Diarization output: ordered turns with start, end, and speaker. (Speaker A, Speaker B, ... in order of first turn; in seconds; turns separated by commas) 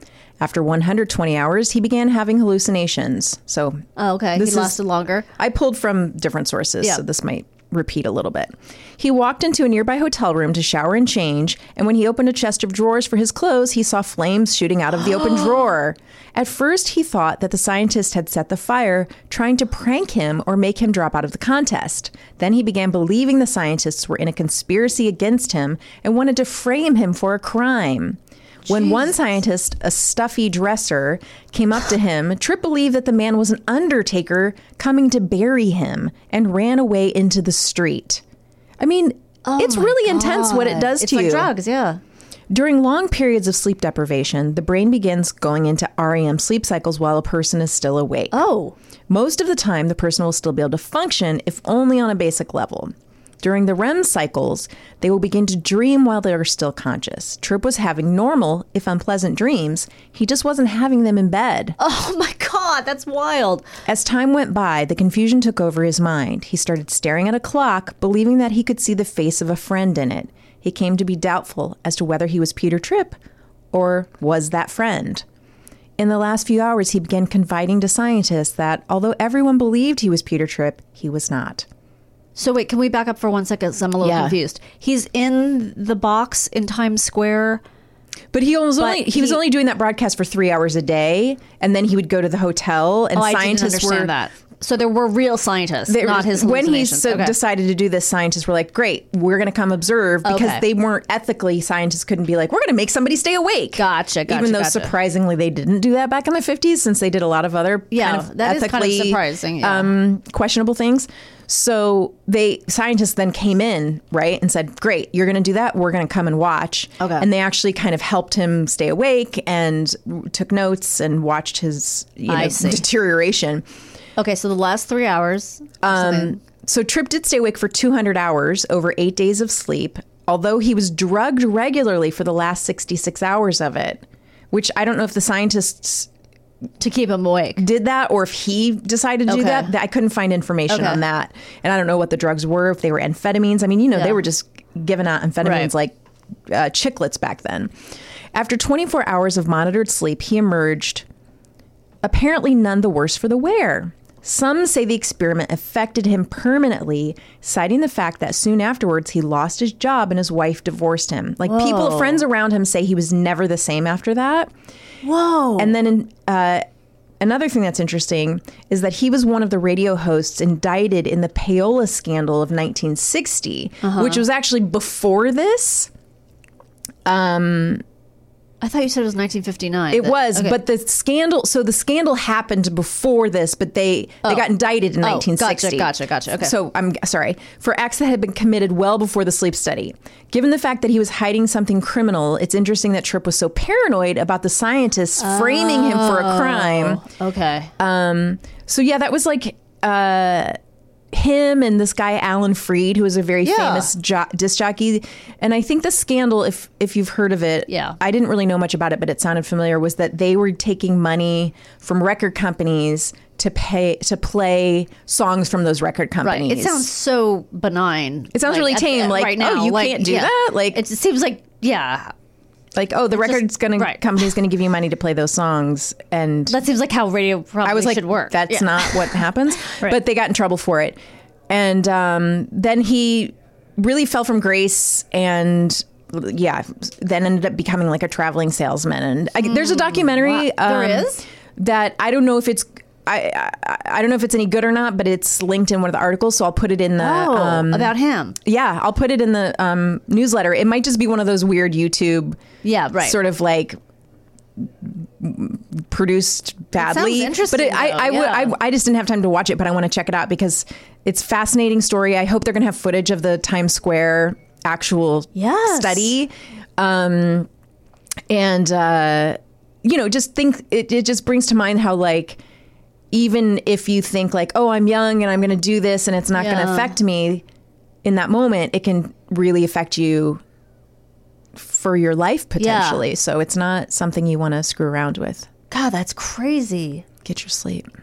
Speaker A: 0.4-3.8, Speaker B: 4.0-5.2, Speaker A: 4.3-4.8, Speaker A: 5.4-38.2, Speaker B: 15.2-15.5, Speaker B: 28.7-29.1, Speaker A: 38.8-41.5, Speaker B: 39.4-42.0, Speaker A: 42.5-48.4, Speaker B: 48.3-48.7, Speaker A: 49.1-61.8, Speaker B: 61.8-63.6, Speaker A: 63.9-73.2, Speaker A: 73.7-75.2, Speaker A: 76.0-81.7, Speaker B: 82.3-87.6, Speaker A: 84.0-84.3, Speaker A: 88.3-94.1, Speaker B: 88.8-89.4, Speaker B: 93.1-97.3, Speaker A: 95.8-123.7, Speaker B: 100.2-100.6, Speaker B: 103.8-104.9, Speaker B: 107.9-109.9, Speaker B: 117.0-117.3, Speaker B: 122.3-122.8, Speaker B: 124.2-126.4, Speaker A: 125.8-136.1, Speaker B: 136.8-137.6, Speaker A: 137.6-145.9, Speaker B: 139.3-139.7, Speaker B: 140.7-141.0, Speaker B: 143.9-144.2, Speaker B: 145.4-145.7, Speaker A: 146.5-147.7, Speaker A: 148.3-151.0, Speaker A: 152.0-164.5, Speaker B: 161.4-162.2, Speaker B: 165.0-165.8, Speaker A: 165.6-166.6, Speaker A: 167.2-175.9, Speaker B: 173.8-174.2, Speaker A: 177.0-177.8, Speaker B: 178.6-180.6, Speaker A: 179.9-197.0, Speaker B: 185.0-186.5, Speaker B: 195.2-197.7, Speaker A: 197.8-200.6, Speaker A: 201.1-216.8, Speaker B: 203.4-203.9, Speaker B: 207.7-208.0, Speaker B: 216.2-222.1, Speaker A: 218.3-220.8, Speaker A: 222.7-226.6, Speaker B: 223.1-224.0, Speaker B: 226.5-230.0, Speaker A: 227.6-252.4, Speaker B: 239.4-241.2, Speaker B: 247.0-248.4, Speaker B: 252.6-253.2, Speaker A: 253.0-253.8, Speaker A: 254.6-267.5, Speaker B: 256.8-258.5, Speaker B: 265.3-266.1, Speaker A: 268.3-272.4, Speaker A: 273.1-277.4, Speaker B: 276.4-276.9, Speaker A: 278.0-280.4, Speaker A: 281.5-285.5, Speaker B: 282.6-283.0, Speaker B: 285.7-287.0, Speaker A: 287.2-287.9